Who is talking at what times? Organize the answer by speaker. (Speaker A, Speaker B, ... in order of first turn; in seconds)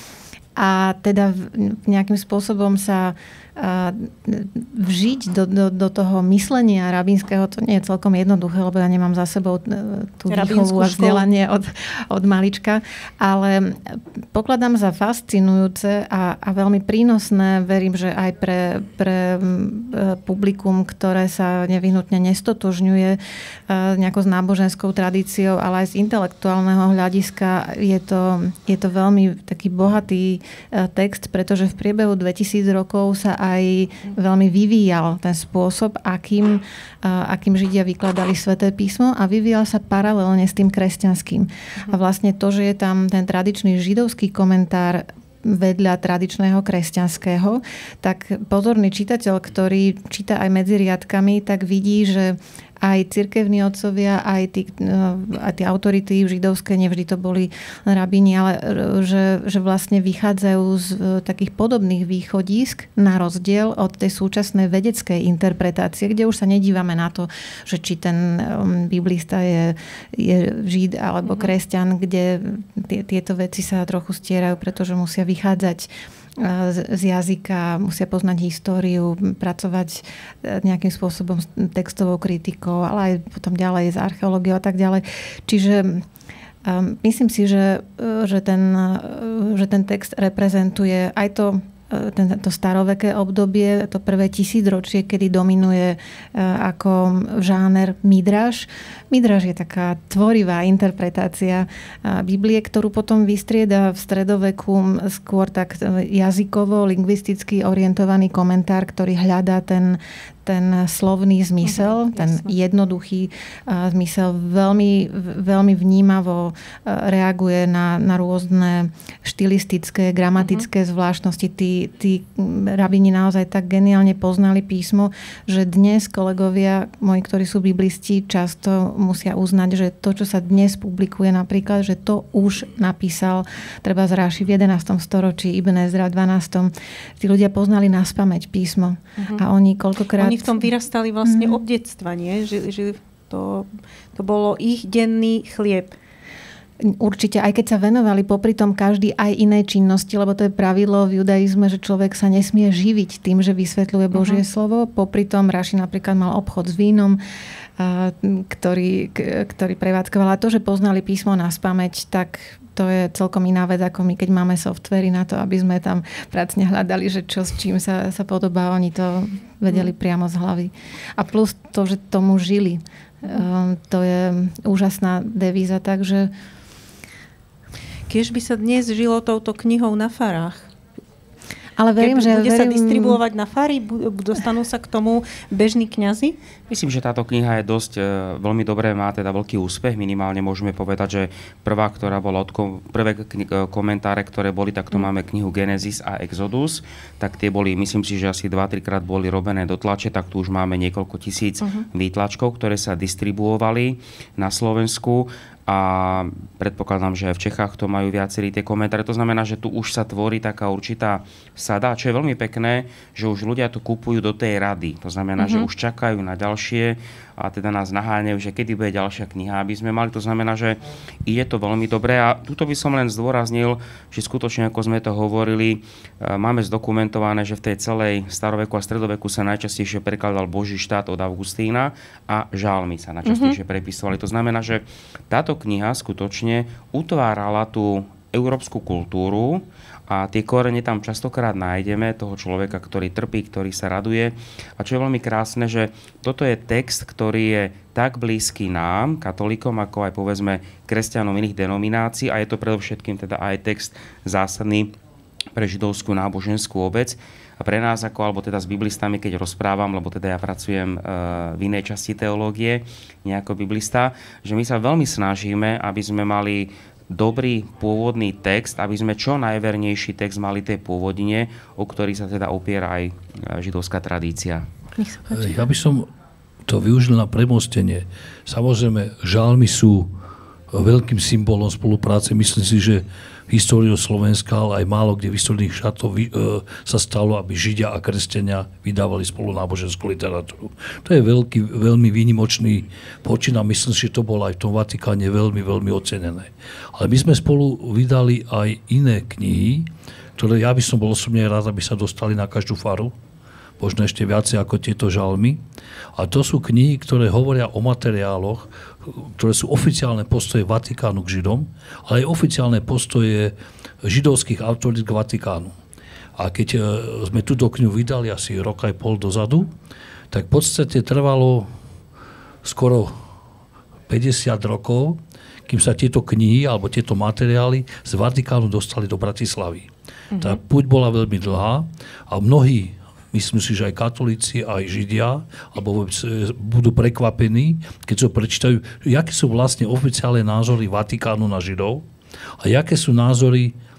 Speaker A: 0.6-86.0, 86.6-140.7, 141.2-141.6, 146.8-157.2, 157.8-176.3, 181.8-183.2
Speaker B: 10.3-11.3, 71.2-71.5, 111.6-112.5, 120.4-120.6, 139.2-139.4, 140.2-145.9, 154.1-154.4, 178.1-180.7, 182.0-186.4, 215.4-215.7, 233.2-233.6, 274.9-275.7, 330.3-330.6
Speaker C: 186.7-254.9, 255.5-274.6
Speaker D: 275.3-276.1, 276.7-280.1, 280.7-303.1, 303.8-305.6, 306.1-315.7, 316.4-319.7, 320.3-321.7, 322.6-323.1, 324.1-342.0, 342.6-343.7